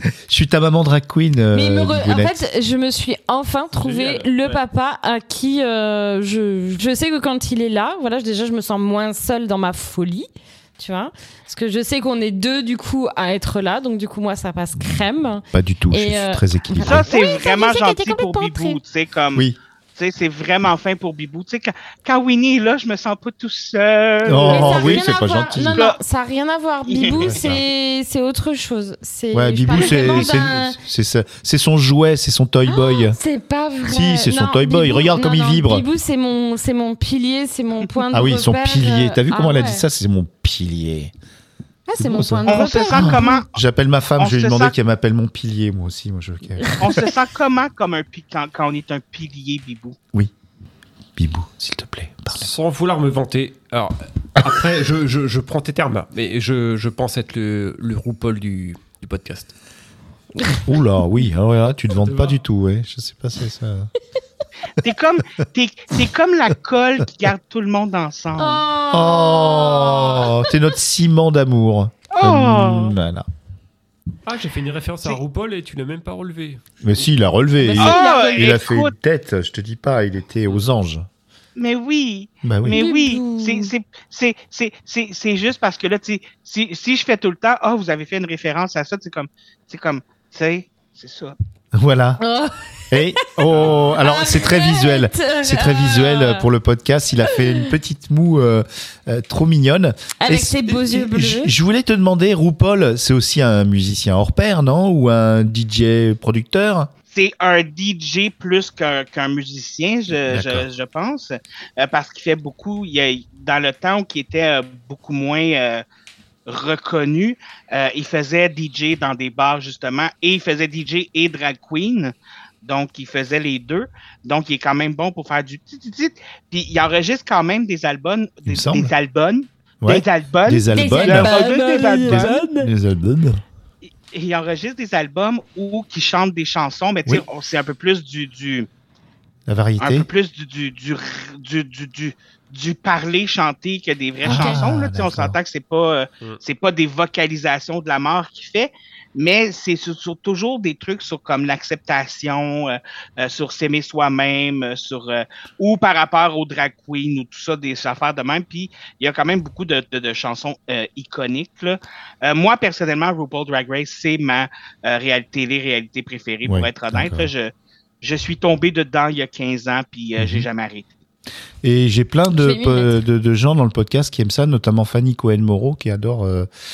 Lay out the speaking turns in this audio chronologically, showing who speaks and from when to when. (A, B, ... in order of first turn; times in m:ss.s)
0:00.3-0:02.4 A
0:01.5-0:18.8 B
0:03.8-0:04.6 C
0:15.5-0:17.1 A
0:16.8-0:25.0 D
0:24.2-0:25.8 A
0:24.5-0:30.8 B
0:26.9-0:27.3 D
0:27.2-0:27.6 A
0:29.3-0:33.2 A
0:29.8-0:30.3 D
0:32.7-0:39.8 B
0:33.9-0:35.8 A
0:38.1-0:41.1 A
0:41.9-0:43.4 B
0:42.0-0:47.0 A
0:42.5-0:43.5 D
0:44.2-0:44.7 D
0:46.8-0:50.0 D
0:51.2-0:52.5 A
0:52.3-0:59.5 C
1:00.7-1:03.9 A
1:02.0-1:02.4 C
1:04.8-1:08.6 D
1:08.4-1:10.6 B
1:08.9-1:13.3 A
1:12.1-1:13.0 D
1:14.3-1:16.6 C
1:16.8-1:21.1 A
1:17.6-1:18.5 B
1:17.8-1:18.9 D
1:21.6-1:31.4 D
1:22.4-1:22.8 A
1:22.7-1:23.7 B
1:31.7-1:32.2 A
1:32.2-1:33.4 B
1:32.9-1:46.9 A
1:33.5-1:33.9 C
1:33.9-1:36.5 B
1:37.2-1:37.8 B
1:40.2-1:41.5 B
1:47.1-1:55.8 D
1:50.3-1:50.7 A
1:56.5-2:12.4 D
2:08.5-2:08.9 A
2:09.8-2:11.4 A
2:10.7-2:12.7 B
2:12.0-2:13.4 A
2:14.1-2:18.7 D
2:19.5-2:20.1 A
2:19.8-2:50.9 D
2:24.2-2:24.6 B
2:24.2-2:25.4 A
2:46.4-2:47.3 A
2:50.2-2:50.5 A
2:51.6-2:56.5 A
2:52.4-2:53.0 B